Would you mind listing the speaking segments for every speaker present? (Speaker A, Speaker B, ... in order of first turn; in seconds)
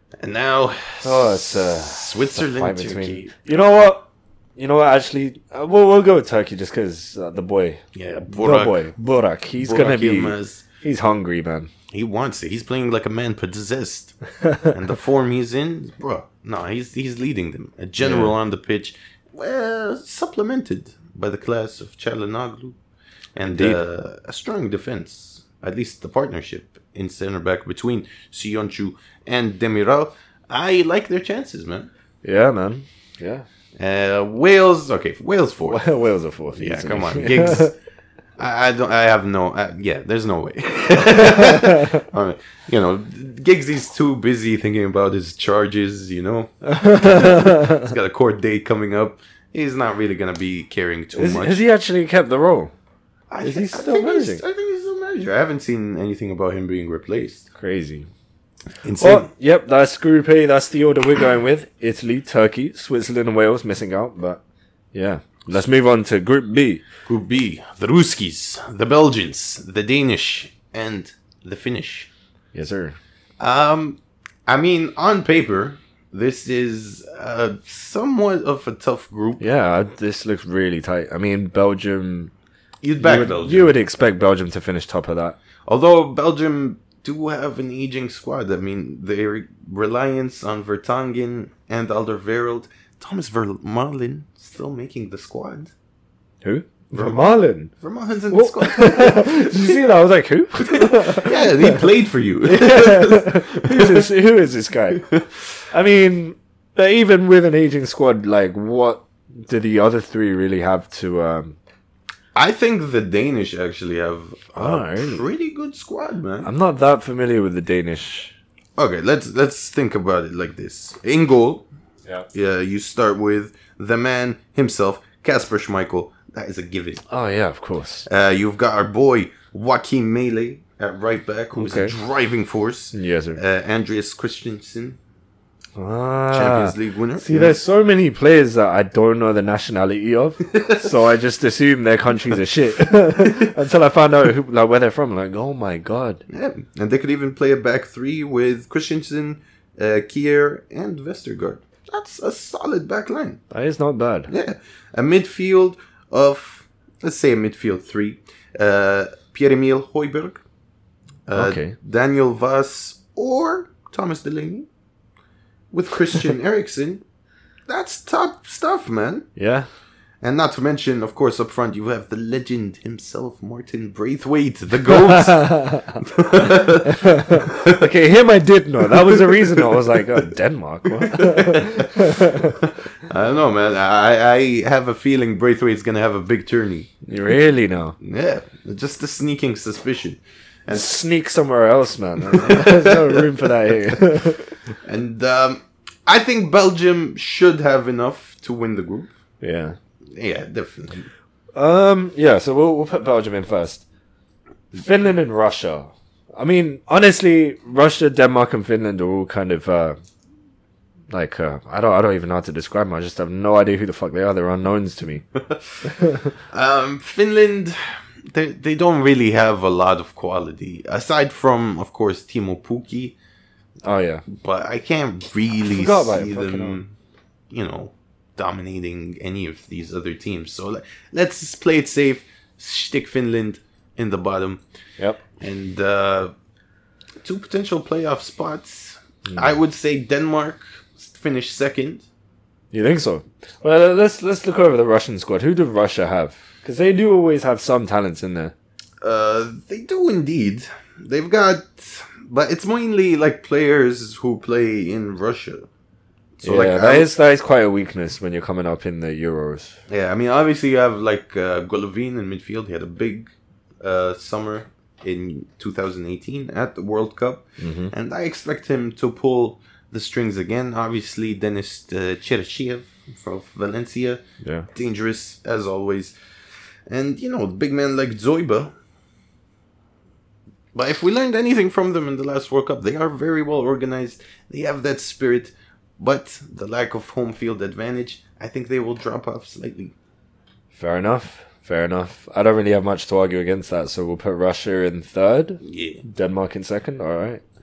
Speaker A: 0.2-3.4, 7.9-8.8, 9.6-10.7, 11.9-22.8, 23.4-31.9, 33.8-35.8, 36.6-37.7, 38.4-51.6, 53.3-57.5, 58.8-59.3, 67.1-72.1, 73.4-79.4, 82.8-83.7, 85.7-95.7, 96.9-99.8, 100.6-104.1, 105.0-105.2, 112.3-116.5, 118.8-121.7, 122.3-127.0, 128.1-135.0, 136.3-137.6, 140.5-140.9, 143.2-143.5, 146.3-153.4, 154.3-160.4, 161.3-164.7, 165.7-167.0, 167.7-169.3, 170.2-177.9, 178.8-180.3, 180.9-186.9, 188.0-191.0, 192.3-193.5, 194.8-199.1, 200.1-201.1, 216.4-223.2, 224.3-226.9, 227.5-234.6, 235.4-236.3, 237.2-242.1, 249.0-255.7, 256.4-257.1, 259.9-274.2, 274.7-276.1, 276.9-278.7, 280.7-289.9, 295.6-296.0
Speaker B: 1.0-11.7, 18.0-18.3, 23.4-23.8, 32.2-33.5, 35.7-37.7, 41.4-41.8, 46.7-47.9, 51.2-52.7, 53.4-54.4, 57.5-58.1, 59.0-64.4, 64.9-66.8, 72.5-73.0, 79.4-82.3, 83.0-85.4, 96.4-97.7, 98.3-101.8, 102.5-105.1, 105.7-111.6, 114.6-115.2, 116.4-118.3, 127.1-128.1, 131.6-131.9, 132.9-133.4, 135.8-146.2, 153.5-154.3, 161.3-161.8, 169.4-169.7, 174.9-176.0, 176.8-182.6, 187.1-188.0, 190.7-194.6, 199.4-199.8, 201.6-203.8, 204.7-210.0, 211.1-215.2, 215.9-216.3, 223.8-224.2, 225.7-226.8, 242.7-248.5, 256.4-259.8, 267.6-267.9, 274.4-274.7, 290.7-297.4